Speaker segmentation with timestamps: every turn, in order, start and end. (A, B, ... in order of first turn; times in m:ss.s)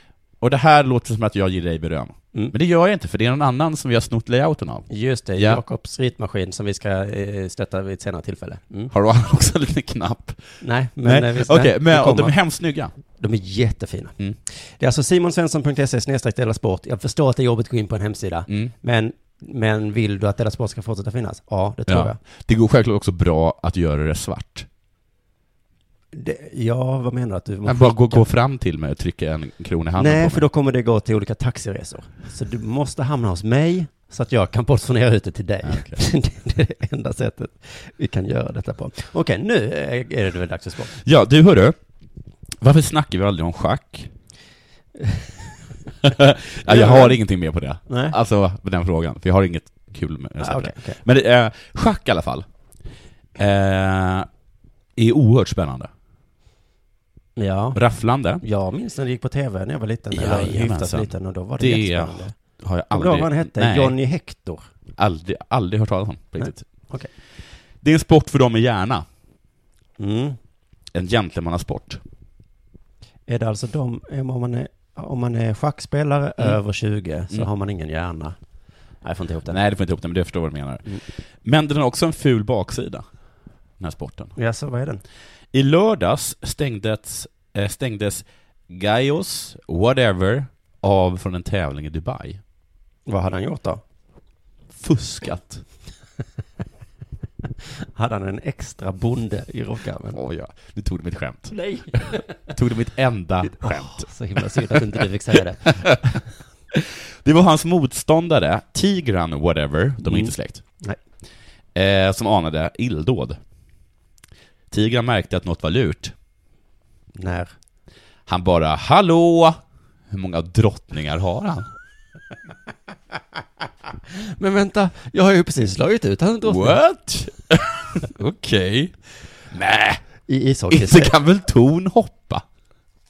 0:00.4-0:05.6 A
0:04.9-0:08.9 B
0:08.9-0:12.9 A
0:10.6-0:12.3 B
0:13.2-0:22.2 B
0:18.5-0:18.7 A
0:21.9-0:24.7 A
0:26.1-0:28.3 B
0:27.6-0:30.4 A
0:30.0-0:40.9 B
0:35.6-0:36.0 A
0:41.0-0:41.8 A
0:42.6-0:44.1 A
0:45.0-0:45.3 B
0:46.0-0:52.4 A
0:46.6-0:47.2 B
0:47.9-0:48.1 B
0:50.4-0:51.0 B
0:53.4-0:54.3 A
0:55.0-0:55.9 A
0:57.4-0:57.8 B
0:57.7-0:58.4 A
0:58.4-1:02.3 B
1:00.1-1:03.9 A
1:02.9-1:04.6 B
1:05.0-1:06.6 A
1:06.4-1:07.1 B
1:07.8-1:09.0 A
1:10.0-1:10.4 B
1:10.9-1:12.0 A
1:13.3-1:18.4 B
1:19.0-1:19.6 B
1:19.5-1:23.0 A
1:23.8-1:24.3 A
1:24.4-1:25.0 B
1:25.5-1:32.4 A
1:33.1-1:33.8 B
1:34.7-1:35.6 A
1:38.0-1:40.2 B
1:40.1-1:46.0 A
1:41.5-1:42.2 B
1:43.6-1:46.1 B
1:46.7-1:50.6 A
1:50.0-1:51.0 B
1:51.7-1:53.4 A
1:54.7-1:56.1 A
1:57.2-1:57.5 B
1:58.3-1:59.6 A
2:00.1-2:01.7 A
2:04.2-2:06.8 B
2:06.4-2:08.9 A
2:09.5-2:10.0 A
2:10.3-2:11.1 B
2:10.7-2:12.4 A